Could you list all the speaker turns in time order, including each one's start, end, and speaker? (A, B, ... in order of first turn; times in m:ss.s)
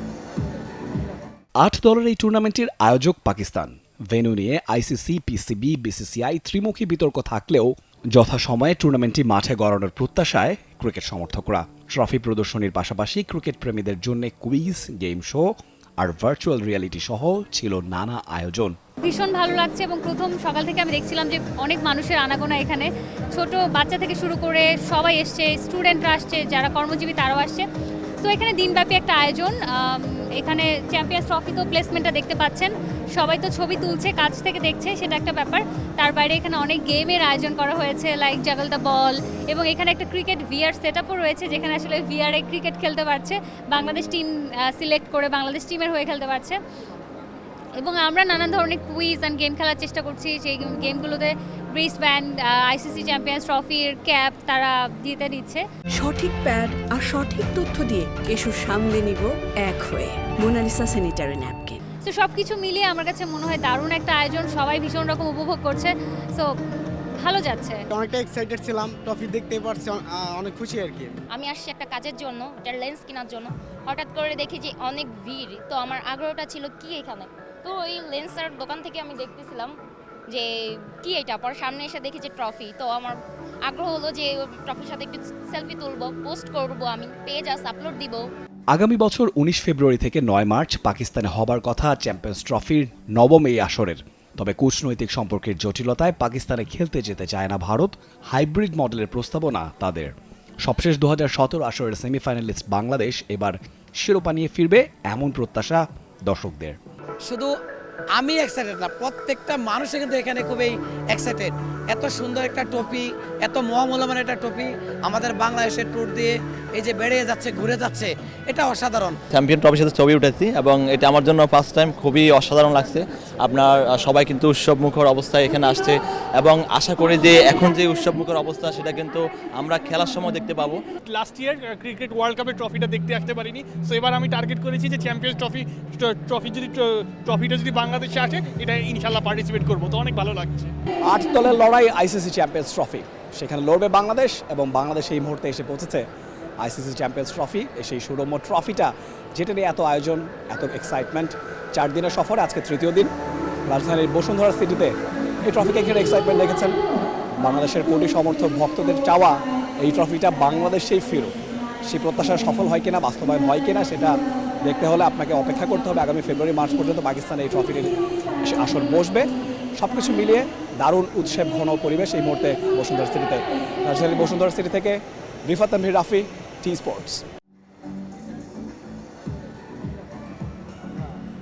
0:01.6-0:18.8 A
0:19.0-0:27.6 B
0:28.2-0:46.6 B
0:47.8-0:55.6 B
0:56.0-1:01.8 C
1:02.0-1:06.5 B
1:07.2-1:07.8 B
1:07.9-1:11.1 D
1:11.3-1:19.7 E
1:21.0-1:28.2 E
1:28.7-1:46.8 A
1:48.2-1:59.1 F
1:59.3-2:10.8 G
2:11.1-2:20.7 H
2:21.1-2:26.1 A
2:26.6-2:33.1 A
2:33.7-2:35.0 A
2:35.5-2:36.8 A
2:37.4-2:41.3 A
2:41.9-2:47.9 A
2:48.5-2:49.3 A
2:49.8-2:57.2 A